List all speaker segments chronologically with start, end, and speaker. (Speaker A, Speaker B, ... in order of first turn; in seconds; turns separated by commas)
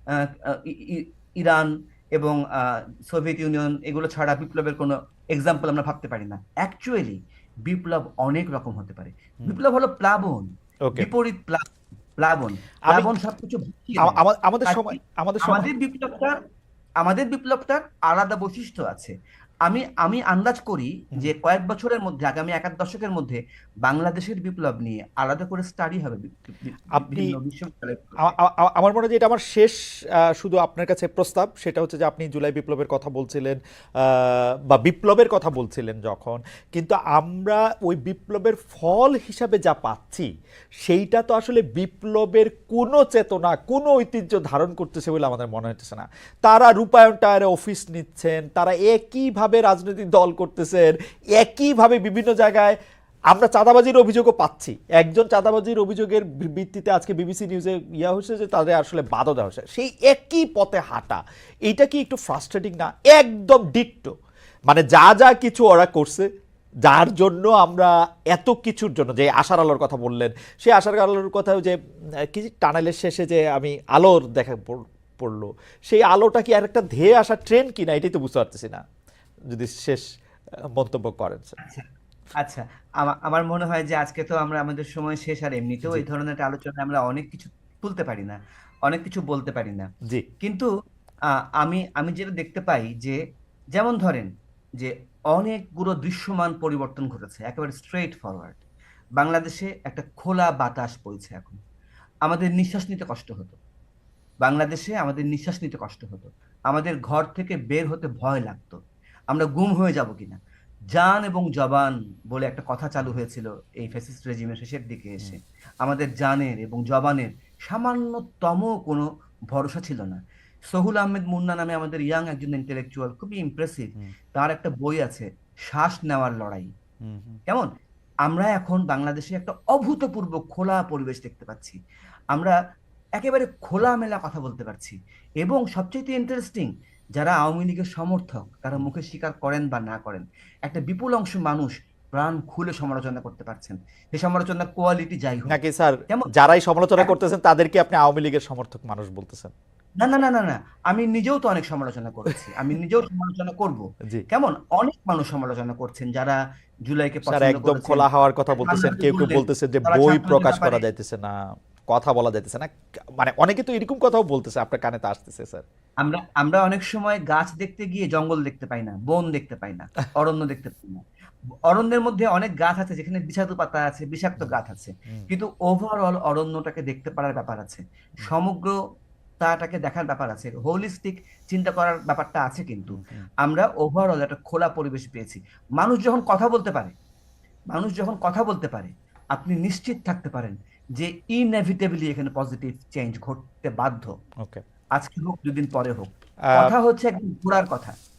Speaker A: 0.1-11.6, Speaker A: 12.2-16.4, Speaker B: 14.0-15.7, Speaker A: 17.0-19.1, Speaker A: 19.6-28.3, Speaker B: 26.9-27.3, Speaker B: 28.2-29.8, Speaker B: 30.4-40.3, Speaker B: 40.8-52.8, Speaker B: 53.3-64.1, Speaker B: 64.7-66.3, Speaker B: 66.8-71.7, Speaker B: 72.3-78.8, Speaker B: 79.5-80.0, Speaker B: 80.8-81.5, Speaker A: 81.6-81.8, Speaker A: 82.4-89.9, Speaker A: 90.4-90.7, Speaker A: 91.6-93.2, Speaker A: 93.7-94.3, Speaker A: 94.8-98.6, Speaker A: 99.2-101.6, Speaker A: 102.2-103.6, Speaker A: 104.4-108.8, Speaker A: 109.3-110.4, Speaker A: 110.9-126.7, Speaker B: 127.0-127.4, Speaker A: 128.3-131.8, Speaker A: 133.2-145.6, Speaker B: 145.5-149.5, Speaker A: 150.0-160.8, Speaker B: 157.3-161.3, Speaker B: 161.9-165.6, Speaker A: 166.0-171.0, Speaker A: 171.7-178.8, Speaker A: 179.4-186.9, Speaker B: 182.9-183.3, Speaker A: 187.7-194.1, Speaker A: 194.9-197.9